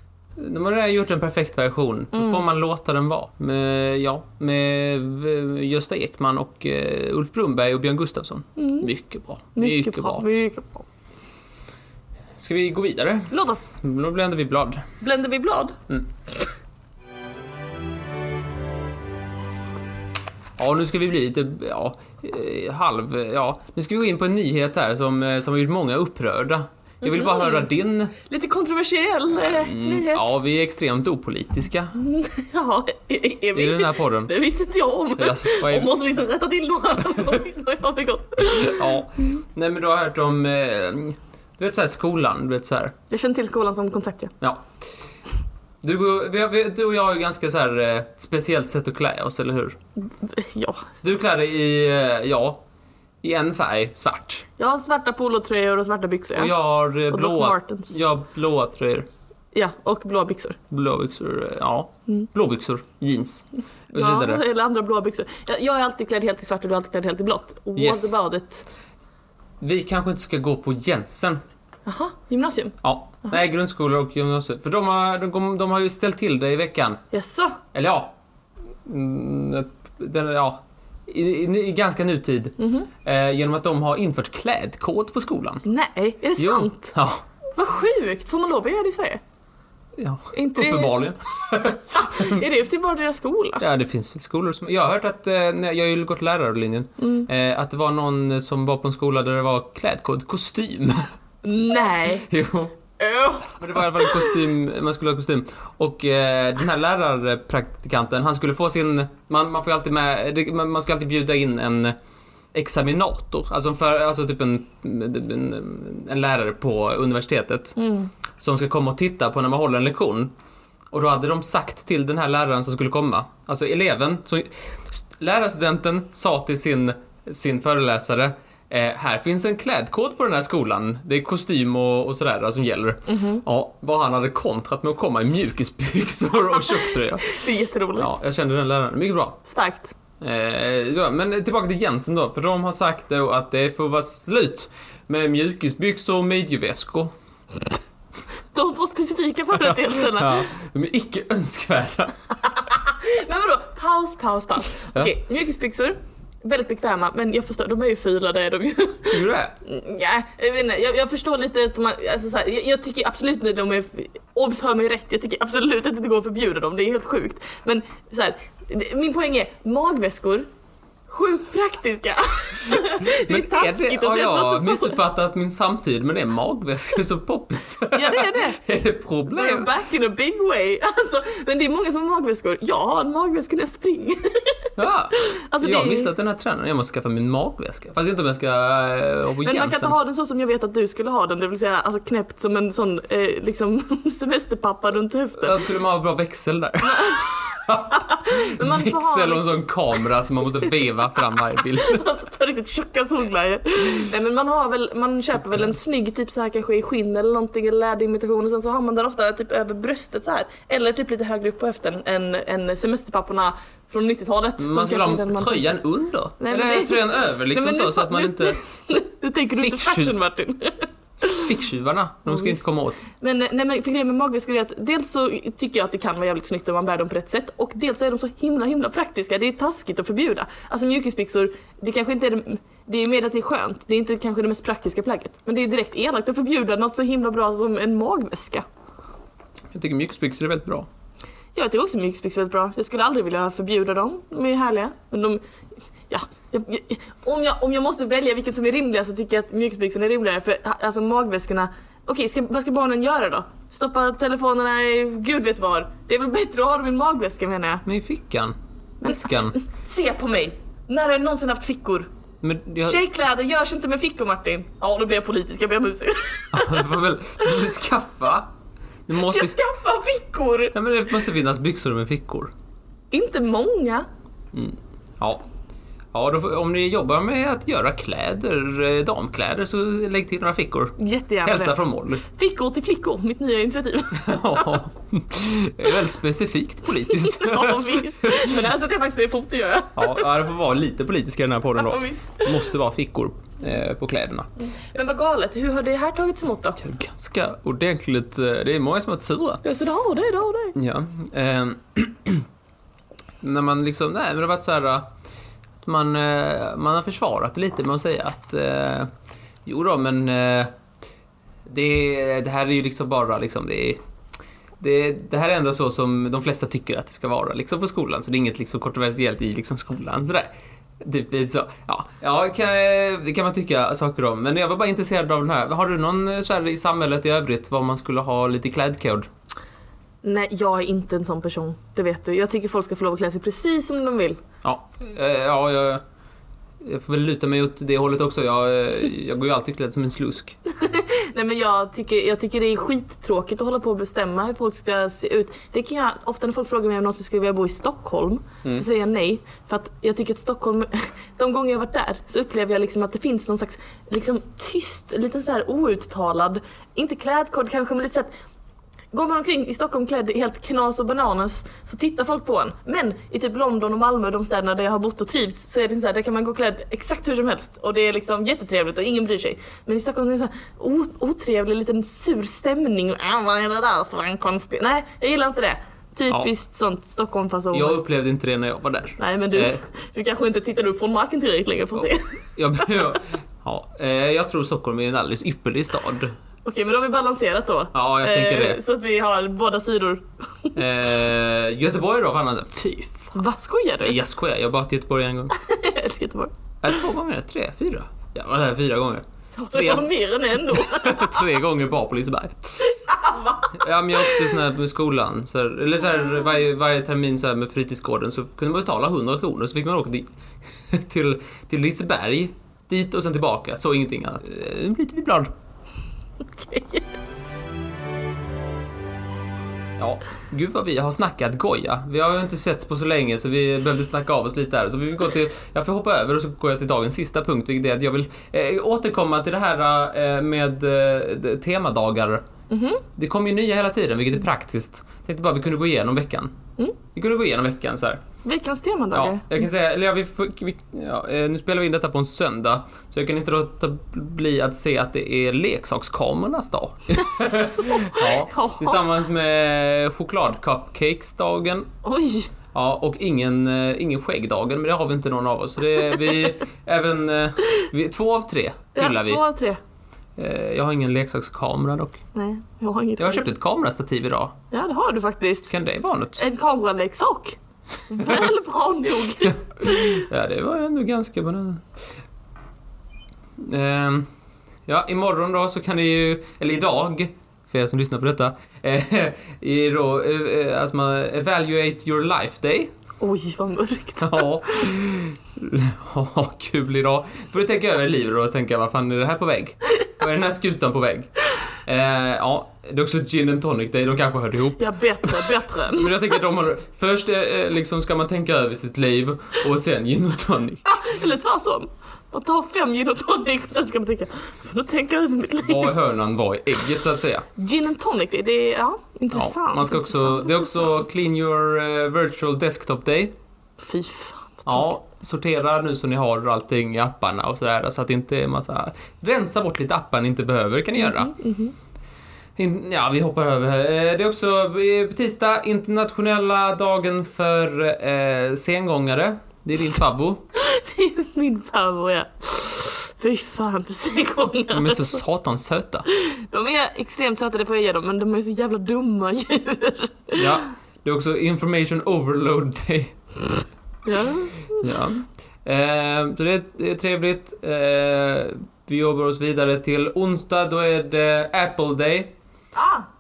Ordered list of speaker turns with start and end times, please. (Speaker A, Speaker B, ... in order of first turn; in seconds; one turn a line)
Speaker A: 0.4-10.3
Speaker B: 2.1-2.4
Speaker B: 8.6-8.9
Speaker B: 9.6-10.9
Speaker A: 12.4-14.9
Speaker B: 13.3-13.8
Speaker B: 15.0-15.8
Speaker A: 20.6-28.1
Speaker B: 27.0-27.6
Speaker B: 28.2-30.3
Speaker A: 29.3-31.9
Speaker B: 32.0-38.9
Speaker A: 33.5-34.3
Speaker A: 35.2-35.9
Speaker A: 38.5-42.9
Speaker B: 43.1-44.3
Speaker A: 44.4-44.7
Speaker A: 45.8-49.8
Speaker B: 50.2-50.9
Speaker A: 51.0-52.6
Speaker A: 53.2-54.5
Speaker B: 54.6-56.5
Speaker A: 56.4-59.1
Speaker B: 57.1-58.0
Speaker B: 59.5-60.6
Speaker A: 60.7-64.4
Speaker B: 63.9-68.7
Speaker A: 67.8-68.1
Speaker A: 69.6-71.4
Speaker B: 71.9-73.4
Speaker A: 72.8-77.0
Speaker B: 77.1-77.6
Speaker A: 77.7-78.1
Speaker A: 78.8-85.6
Speaker B: 82.6-82.9
Speaker B: 85.7-86.9
Speaker A: 86.4-87.2
Speaker B: 87.6-89.2
Speaker A: 90.0-92.4
Speaker B: 90.3-91.0
Speaker B: 91.9-93.6
Speaker A: 93.6-101.1
Speaker B: 97.0-97.3
Speaker B: 101.4-102.3
Speaker A: 102.2-102.8
Speaker B: 103.0-104.4
Speaker A: 103.5-112.0
Speaker A: 112.5-117.8
Speaker B: 117.8-118.1
Speaker A: 118.4-120.3
Speaker A: 120.9-137.4
Speaker B: 133.1-133.4
Speaker B: 136.7-138.1
Speaker A: 138.0-139.4
Speaker B: 139.5-139.9
Speaker A: 140.2-147.1
Speaker B: 148.5-150.5
Speaker A: 149.5-152.2
Speaker B: 152.5-170.5
Speaker A: 159.1-159.6
Speaker B: 171.1-175.0
Speaker A: 173.0-179.7
Speaker B: 177.9-178.6
Speaker B: 179.3-186.1
Speaker A: 184.8-189.9
Speaker B: 189.4-195.6
Speaker A: 195.4-202.1
Speaker B: 196.8-199.7
Speaker B: 201.6-215.7
Speaker A: 205.3-205.8
Speaker A: 214.6-219.0
Speaker B: 216.4-221.5
Speaker A: 219.6-220.2
Speaker A: 221.3-223.1
Speaker B: 222.3-238.7
Speaker A: 239.7-240.9
Speaker B: 241.6-245.4
Speaker B: 246.1-257.9
Speaker A: 257.9-259.6
Speaker B: 259.0-262.1
Speaker A: 262.4-263.0
Speaker B: 262.8-267.0
Speaker A: 266.5-268.5
Speaker A: 269.1-269.6
Speaker B: 269.2-270.8
Speaker A: 270.7-272.5
Speaker B: 273.1-274.1
Speaker A: 274.5-275.4
Speaker A: 276.1-282.2
Speaker B: 281.0-284.8
Speaker A: 284.1-288.6
Speaker B: 287.0-290.3
Speaker A: 290.0-294.5
Speaker B: 291.8-292.7
Speaker B: 294.8-296.8
Speaker A: 296.8-299.6
Speaker B: 299.6-300.8
Speaker A: 300.8-302.4
Speaker A: 303.4-305.1
Speaker A: 305.8-309.1
Speaker A: 309.6-310.7
Speaker A: 311.7-314.0
Speaker A: 314.8-329.3
Speaker B: 330.2-334.4
Speaker A: 334.6-336.0
Speaker A: 336.8-340.6
Speaker B: 340.7-358.3
Speaker B: 359.1-378.0
Speaker A: 377.7-379.8
Speaker B: 379.2-382.9
Speaker A: 382.6-386.3
Speaker B: 386.6-390.8
Speaker A: 387.9-388.8
Speaker A: 390.8-393.4
Speaker B: 393.3-394.2
Speaker A: 394.0-395.6
Speaker B: 395.5-397.0
Speaker A: 396.8-402.9
Speaker B: 399.5-401.6
Speaker B: 402.9-403.7
Speaker A: 403.7-415.5
Speaker B: 404.2-404.5
Speaker B: 416.4-417.1
Speaker A: 420.0-432.4
Speaker B: 432.7-433.0
Speaker A: 433.2-436.5
Speaker A: 437.1-438.2
Speaker B: 438.4-439.5
Speaker A: 439.1-451.9
Speaker B: 447.2-449.0
Speaker B: 452.0-452.5
Speaker A: 452.7-459.4
Speaker B: 459.0-459.8
Speaker A: 460.4-462.2
Speaker B: 462.4-463.5
Speaker A: 463.2-464.6
Speaker B: 464.7-465.7
Speaker A: 465.7-466.4
Speaker B: 466.4-470.3
Speaker A: 468.2-468.5
Speaker A: 469.4-471.9
Speaker A: 473.6-474.3
Speaker A: 474.9-482.9
Speaker B: 483.2-484.9
Speaker A: 484.2-491.3
Speaker A: 491.9-500.8
Speaker B: 494.8-496.1
Speaker B: 500.9-505.9
Speaker A: 505.6-507.5
Speaker B: 507.6-511.1
Speaker A: 509.3-513.3
Speaker B: 513.8-515.0
Speaker A: 514.7-521.3
Speaker B: 521.0-521.7
Speaker A: 522.6-530.5
Speaker B: 530.6-535.2
Speaker A: 534.7-536.0
Speaker B: 536.1-540.6
Speaker A: 540.4-543.5
Speaker B: 544.1-544.9
Speaker A: 544.8-552.3
Speaker B: 552.8-553.1